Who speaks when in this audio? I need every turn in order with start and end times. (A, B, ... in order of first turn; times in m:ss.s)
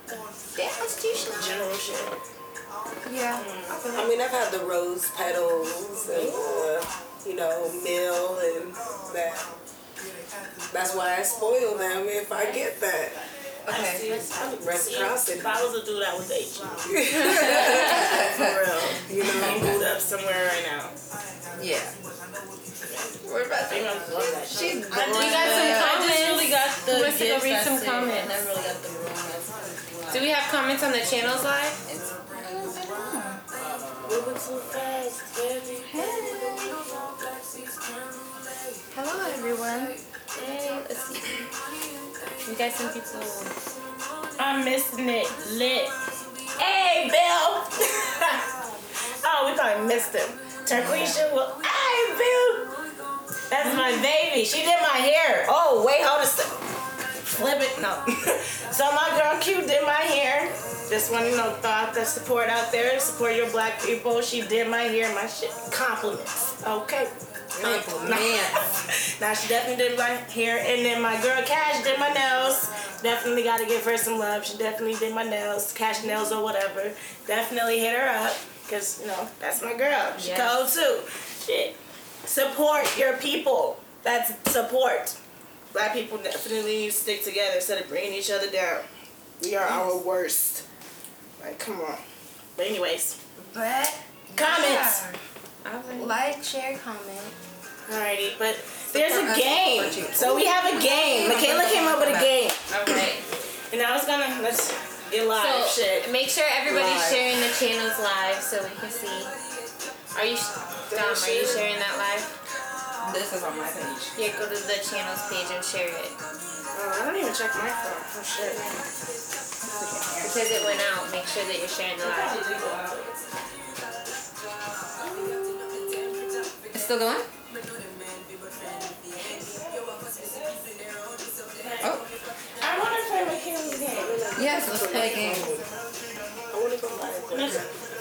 0:00.6-0:01.3 A
0:01.1-0:02.2 B
0:03.0-0:04.1 A
0:03.3-0:03.8 B
0:03.9-0:09.5 C
0:10.7-0:13.2 C
0:13.7-0:14.1 A
0:13.7-0:21.0 B
0:14.2-0:14.5 D
0:14.6-0:15.5 C
0:17.0-0:17.6 C
0:17.1-0:18.6 A
0:19.1-0:19.8 C
0:19.4-0:19.7 A
0:21.6-0:21.9 A
0:23.2-0:25.9 A
0:23.7-0:25.8 B
0:25.0-0:28.4 D
0:25.6-0:30.3 E
0:30.1-0:31.8 D
0:31.8-0:32.8 E
0:32.4-0:33.4 A
0:33.5-0:34.4 E
0:34.0-0:38.1 B
0:35.9-0:36.8 A
0:38.9-0:40.0 A
0:40.4-0:41.3 D
0:42.4-0:43.5 D
0:44.4-0:45.9 B
0:46.6-0:48.4 B
0:49.2-0:52.7 B
0:50.7-0:51.2 A
0:53.5-0:56.6 B
0:57.2-1:25.2 B
1:07.6-1:08.6 A
1:20.2-1:20.6 D
1:25.7-1:28.9 B
1:29.4-1:30.6 B
1:31.4-1:32.0 B
1:32.6-1:33.2 B
1:33.5-1:35.2 A
1:34.4-1:35.0 B
1:35.6-1:36.2 D
1:35.9-1:37.3 A
1:37.9-1:42.6 B
1:38.9-1:42.3 A
1:42.7-1:43.2 D
1:43.7-1:46.1 B
1:45.3-1:49.3 D
1:46.7-1:47.3 A
1:50.1-1:52.3 D
1:50.9-1:51.7 B
1:53.0-1:54.2 A
1:54.2-1:56.2 D
1:56.8-1:58.6 B
1:59.6-2:00.8 A
2:00.2-2:02.4 D
2:02.0-2:03.2 B
2:06.7-2:07.3 A
2:09.2-2:10.5 B
2:11.6-2:11.9 B
2:11.8-2:12.1 A
2:12.6-2:14.4 B
2:14.1-2:15.7 C
2:14.4-2:15.5 A
2:16.5-2:17.7 C
2:17.3-2:17.6 B